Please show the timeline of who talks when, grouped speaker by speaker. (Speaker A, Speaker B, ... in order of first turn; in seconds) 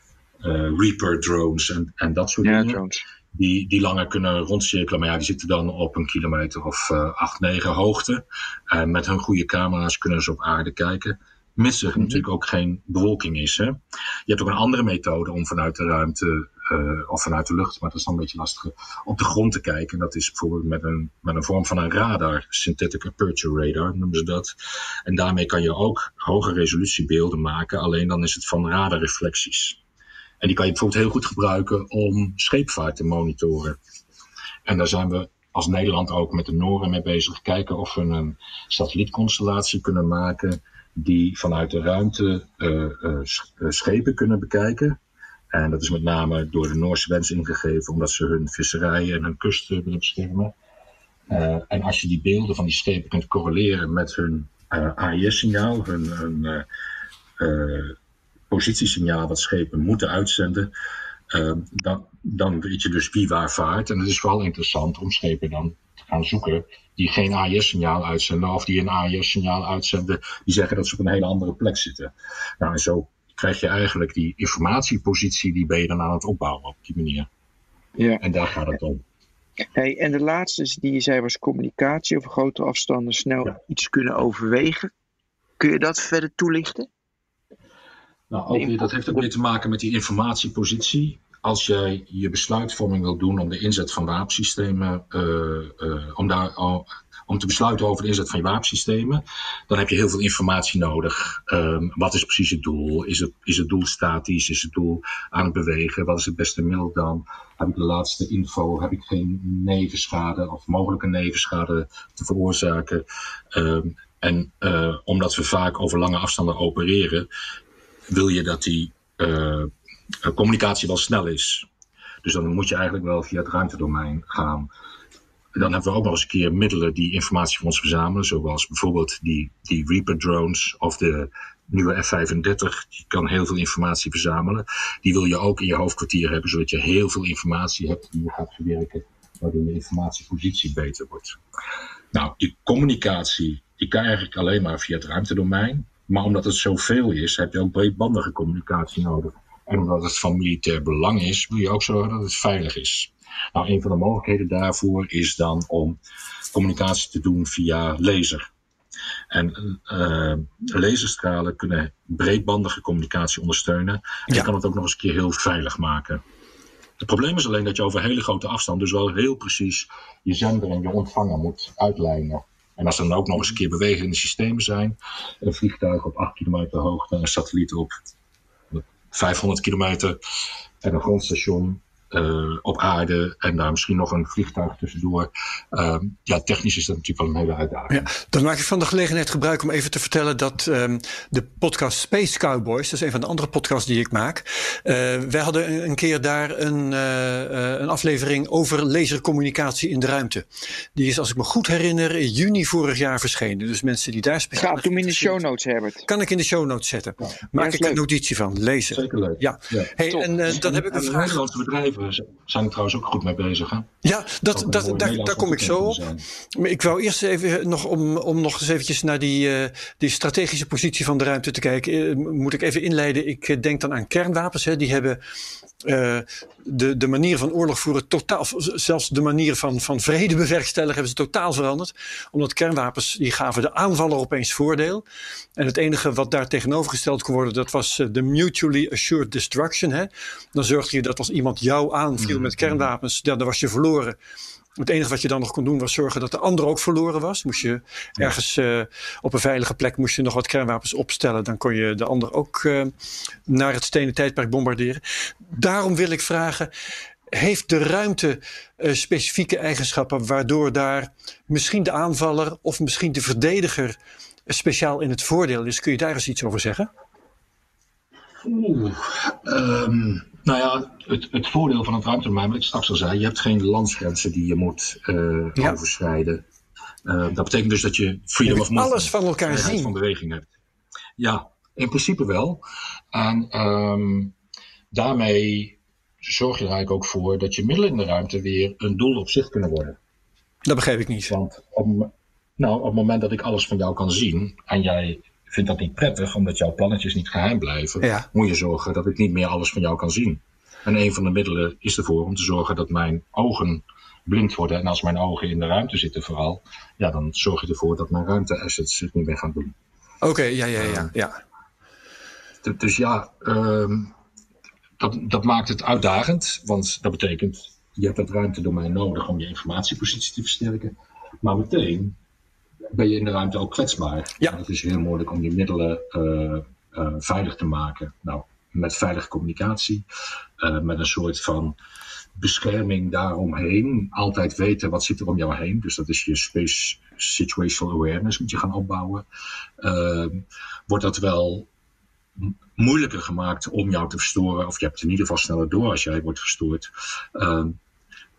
Speaker A: 0.4-2.8, 3.3-24.6, 25.1-29.8, 30.4-33.8, 34.6-45.0, 45.5-50.5, 51.3-56.6, 57.4-58.0, 58.5-60.7, 61.3-77.3, 78.2-79.0, 88.3-117.3, 118.1-119.7, 120.2-121.7, 122.2-124.7, 125.5-141.4, 142.1-156.0, 156.5-158.5, 159.3-166.2, 167.0-177.9, 178.7-180.2, 180.8-188.1, 208.9-209.9, 210.4-213.9, 214.5-216.2, 242.2-242.9, 268.4-276.4, 277.1-280.5, 281.2-282.6, 283.1-284.3, 284.9-290.0, 291.3-309.7, 310.8-311.1, 312.6-314.1, 315.0-322.2, 322.9-330.1, 330.6-331.8, 332.3-339.3, 339.8-341.7, 342.4-347.8
Speaker B: 2.4-3.0, 12.0-12.2, 78.0-78.2, 79.8-84.9, 85.6-86.9, 88.5-89.2, 204.6-206.1, 207.6-208.0
Speaker C: 187.9-205.4, 206.1-211.4, 214.0-216.0, 216.6-225.2, 225.8-235.0, 235.6-244.2, 244.8-252.9, 253.5-256.7, 257.3-263.9, 264.5-266.9, 278.4-279.9, 290.7-291.3, 298.0-298.3, 310.2-311.4